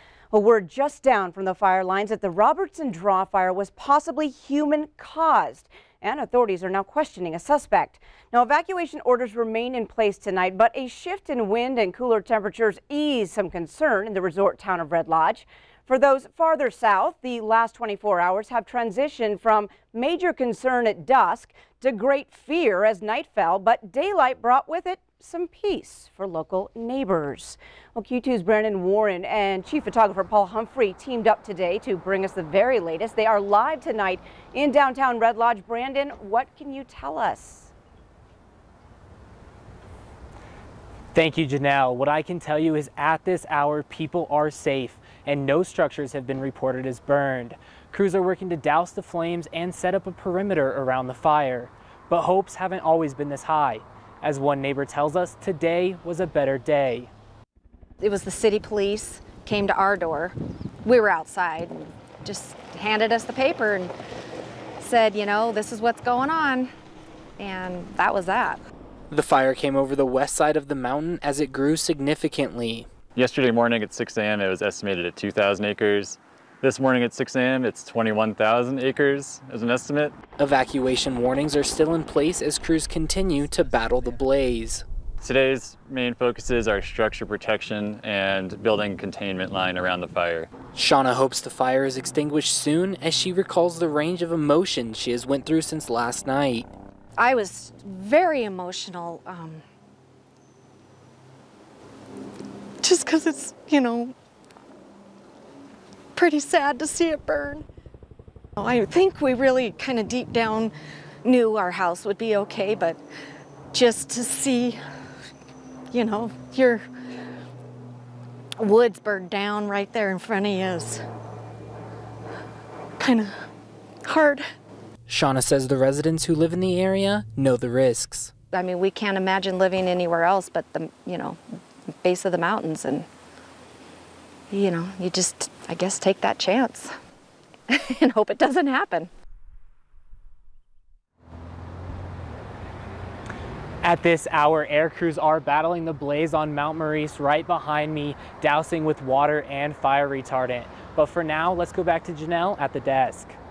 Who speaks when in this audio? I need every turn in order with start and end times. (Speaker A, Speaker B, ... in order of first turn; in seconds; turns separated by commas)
Speaker A: 0.3-37.7, Speaker B: 41.1-57.1, Speaker C: 58.0-63.9, Speaker C: 64.8-66.7, Speaker C: 67.4-68.6, Speaker D: 69.1-72.9, Speaker E: 73.2-80.2, Speaker D: 80.4-84.8, Speaker E: 85.2-90.5, Speaker D: 90.8-96.7, Speaker C: 97.2-99.7, Speaker C: 102.8-104.2, Speaker C: 106.2-107.7, Speaker C: 108.6-113.0, Speaker C: 113.7-114.8, Speaker C: 115.9-116.9, Speaker C: 118.6-121.0, Speaker C: 123.0-123.5, Speaker C: 124.0-124.5, Speaker D: 125.1-128.3, Speaker C: 128.5-133.1, Speaker C: 134.5-136.9, Speaker C: 137.7-139.1, Speaker B: 143.8-153.4